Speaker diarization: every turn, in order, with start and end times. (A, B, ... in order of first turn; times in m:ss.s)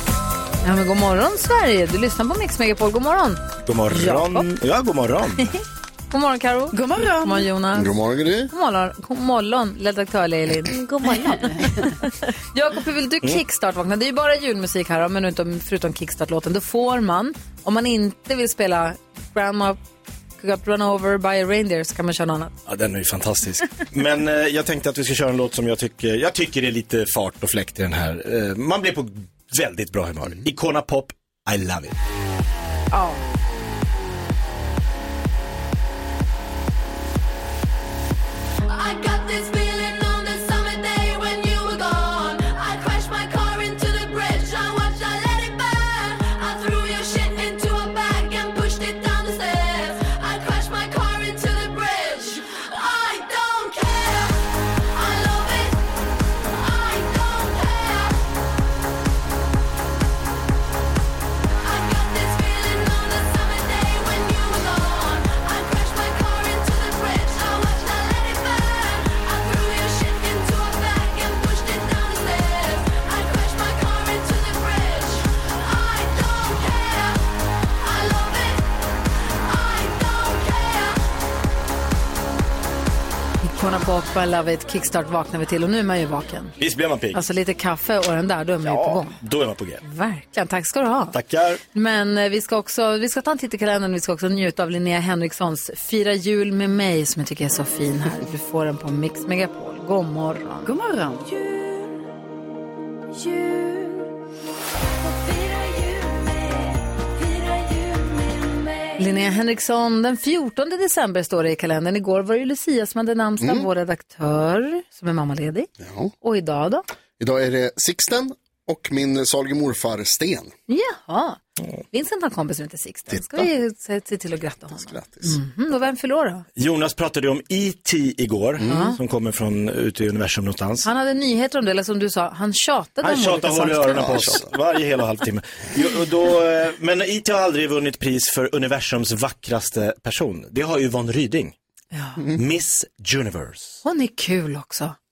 0:00.6-0:04.5 A
0:03.6-0:05.5 B
0:06.1-0:07.9 A
0:06.7-0:07.5 C
0:07.7-0:08.5 D
0:08.5-0:19.8 A
0:11.0-0:12.0 C
0:20.4-0:22.5 A
0:22.7-0:32.0 B
0:38.7-0:55.8 E
0:56.4-0:58.2 E
1:01.6-1:18.7 E
1:19.4-1:21.0 E
1:23.4-1:26.6 A
1:26.6-1:27.2 B
1:27.1-1:29.1 A
1:28.6-1:29.8 B
1:29.8-1:31.2 A
1:31.1-1:31.6 B
1:31.7-1:40.7 A
1:40.6-1:41.3 C
1:41.3-1:42.0 E
1:43.1-1:44.1 E
1:45.0-1:49.1 E
1:49.0-1:55.7 A
1:53.4-1:53.7 D
1:55.8-1:56.1 D
1:56.2-1:56.8 A
1:57.2-2:00.5 D
2:00.7-2:01.4 A
2:01.9-2:06.4 A
2:03.1-2:03.4 D
2:04.7-2:05.4 D
2:06.6-2:10.9 B
2:08.6-2:09.0 A
2:10.8-2:14.4 A
2:13.0-2:21.6 B
2:14.0-2:14.5 D
2:21.9-2:22.2 A
2:22.4-2:23.8 B
2:23.8-2:25.0 A